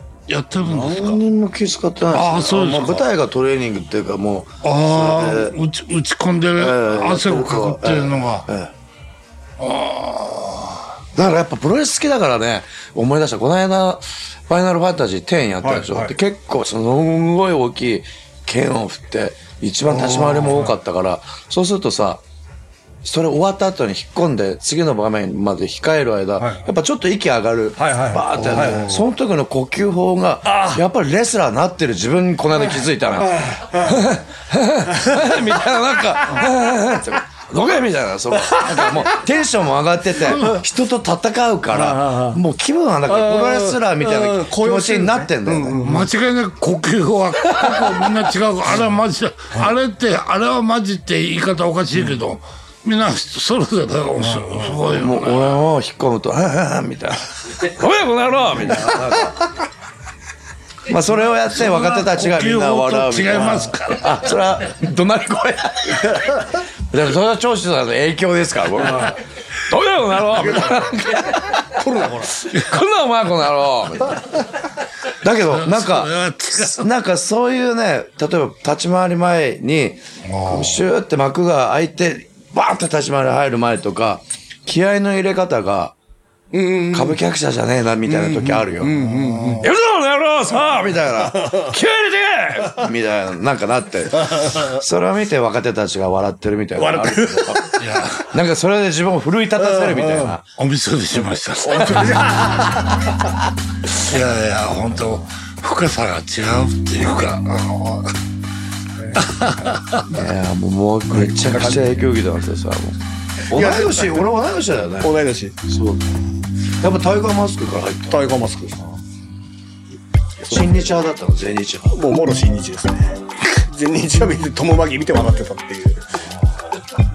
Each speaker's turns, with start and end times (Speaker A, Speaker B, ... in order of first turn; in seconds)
Speaker A: 0.3-1.2, 2.1-3.0, 4.6-8.5, 9.6-10.9, 40.2-40.6, 45.8-55.6, 61.5-64.4, 75.4-76.9, 80.2-80.8, 88.9-89.7, 97.8-98.4, 100.6-102.6, 103.9-108.1, 109.2-110.1
Speaker B: 0.7-5.6, 6.5-8.7, 11.1-22.2, 23.0-45.8, 54.9-59.5, 60.9-74.2, 75.2-86.0, 86.9-89.0, 89.6-97.7, 98.2-100.4, 110.1-113.0, 113.5-115.1, 115.7-116.2, 116.7-118.2, 120.5-122.0
Speaker C: 15.6-16.1, 19.9-20.7, 26.4-26.7, 27.8-29.0, 30.4-30.8, 32.8-34.0, 35.0-35.4, 38.4-39.0, 41.7-42.4, 43.0-46.1, 54.2-54.9, 70.3-71.0, 71.7-72.4, 86.5-87.2, 88.0-89.7, 91.3-91.7, 94.2-94.8, 96.8-97.8, 99.6-100.3, 101.5-103.1, 109.0-109.2, 111.1-112.0, 113.5-114.3, 115.0-115.5, 118.1-119.0, 121.9-126.2